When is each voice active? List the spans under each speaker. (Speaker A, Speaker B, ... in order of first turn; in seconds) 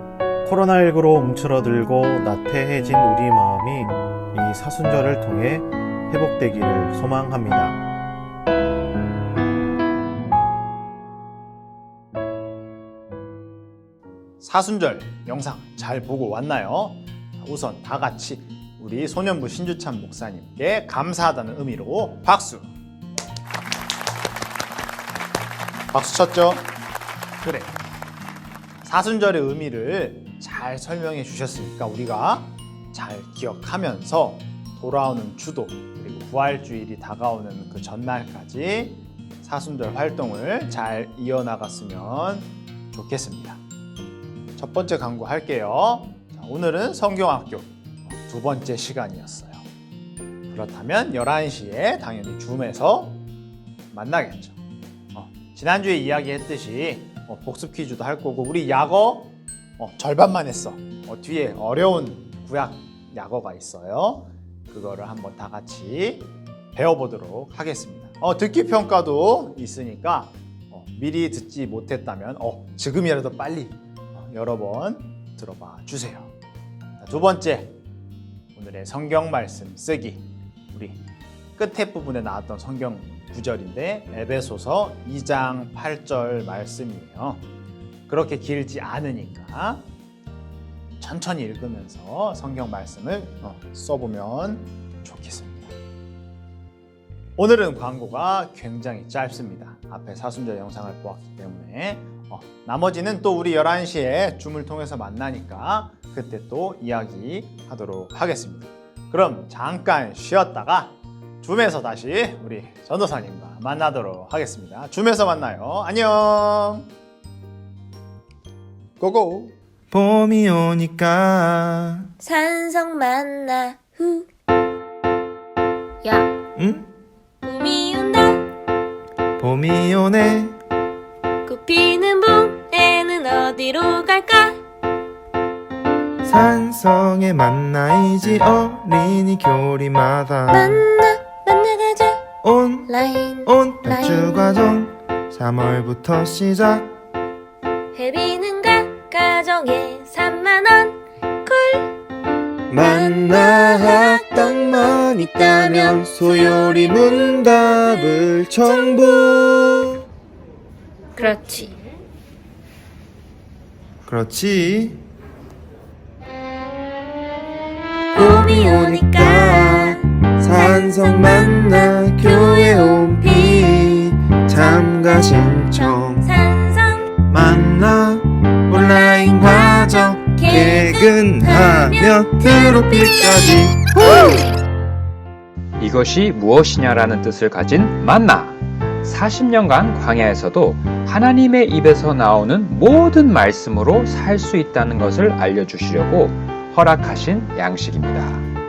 Speaker A: 0.4-7.8
Speaker B: 14.4-22.7, 25.9-26.7, 27.4-27.8, 28.8-43.6, 44.6-49.6, 50.5-53.2, 53.9-54.6, 55.1-76.3, 77.0-77.8, 78.5-81.0, 81.6-87.5, 88.1-89.9, 91.0-95.7, 97.4-116.9
Speaker C: 119.0-122.1, 126.6-126.9, 129.4-130.6, 136.2-140.8, 142.4-142.9, 143.4-146.9, 152.7-160.0, 164.1-165.0, 168.2-176.3, 177.3-184.5
Speaker D: 122.2-124.3, 126.0-126.3, 127.4-128.5, 131.5-134.6, 140.5-142.3, 142.9-144.3, 147.9-151.9, 152.7-159.3, 161.2-161.8, 168.1-170.1, 170.6-174.1, 174.6-174.9, 175.7-177.2, 178.8-184.4
Speaker E: 185.8-198.5